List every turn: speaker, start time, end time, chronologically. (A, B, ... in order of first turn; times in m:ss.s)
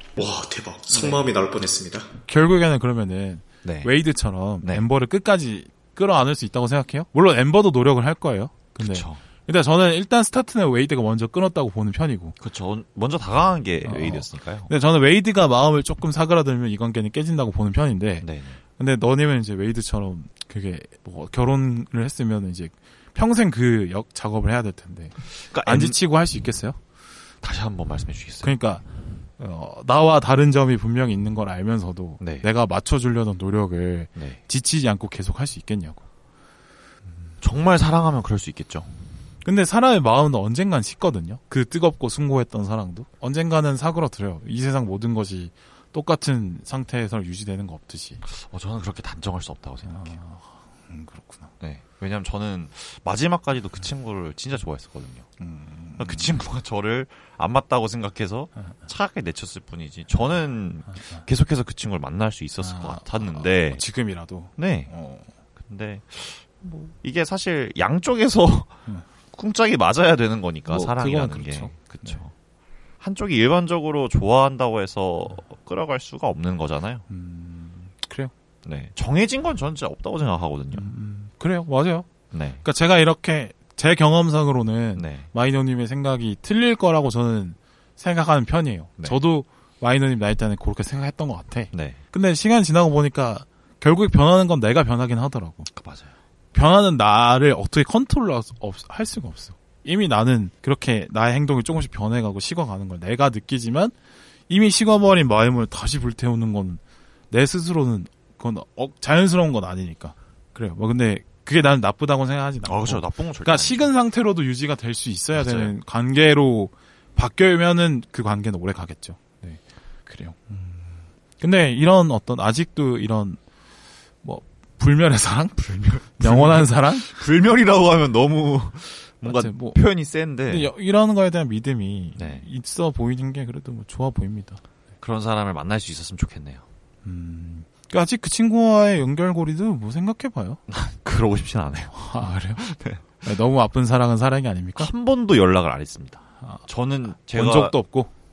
0:00.2-0:02.1 A
0:00.9-0:01.2 B
0:02.3-0:12.4 C
0:03.6-0:04.0 B
0:08.8-0:09.2 B
0:12.4-0:14.7 B
0:13.8-0:18.3 C
0:18.2-0:18.6 B
0:18.8-0:26.8 C
0:25.4-0:26.0 B
0:27.4-0:28.6 B
0:28.4-0:28.9 C
0:29.4-0:36.0 C
0:32.2-0:32.5 B
0:37.4-0:38.9 B
0:39.4-0:48.2 C
0:48.2-0:50.2 B
0:49.8-0:51.5 C
0:51.6-0:55.3 B
0:55.4-0:56.4 C
0:56.0-1:03.8 B
1:02.6-1:05.3 C
1:04.6-1:04.9 B
1:05.6-1:08.8 B
1:09.3-1:12.3 B
1:10.7-1:12.2 C
1:13.0-1:17.0 B
1:17.1-1:18.3 C
1:18.6-1:20.9 B
1:20.7-1:35.7 C
1:22.3-1:22.6 B
1:25.0-1:25.3 B
1:31.7-1:32.0 B
1:35.7-1:36.1 B
1:36.5-1:43.9 C
1:44.5-2:03.4 C
1:52.6-1:53.9 B
1:55.3-1:55.7 B
2:04.2-2:07.1 C
2:05.6-2:10.7 B
2:09.2-2:09.8 C
2:10.5-2:14.6 C
2:12.2-2:12.4 B
2:15.0-2:16.6 B
2:17.0-2:20.6 C
2:20.7-2:22.0 B
2:21.9-2:22.6 C
2:22.6-2:23.0 B
2:23.2-2:24.9 C
2:24.8-2:27.8 B
2:27.3-2:28.1 C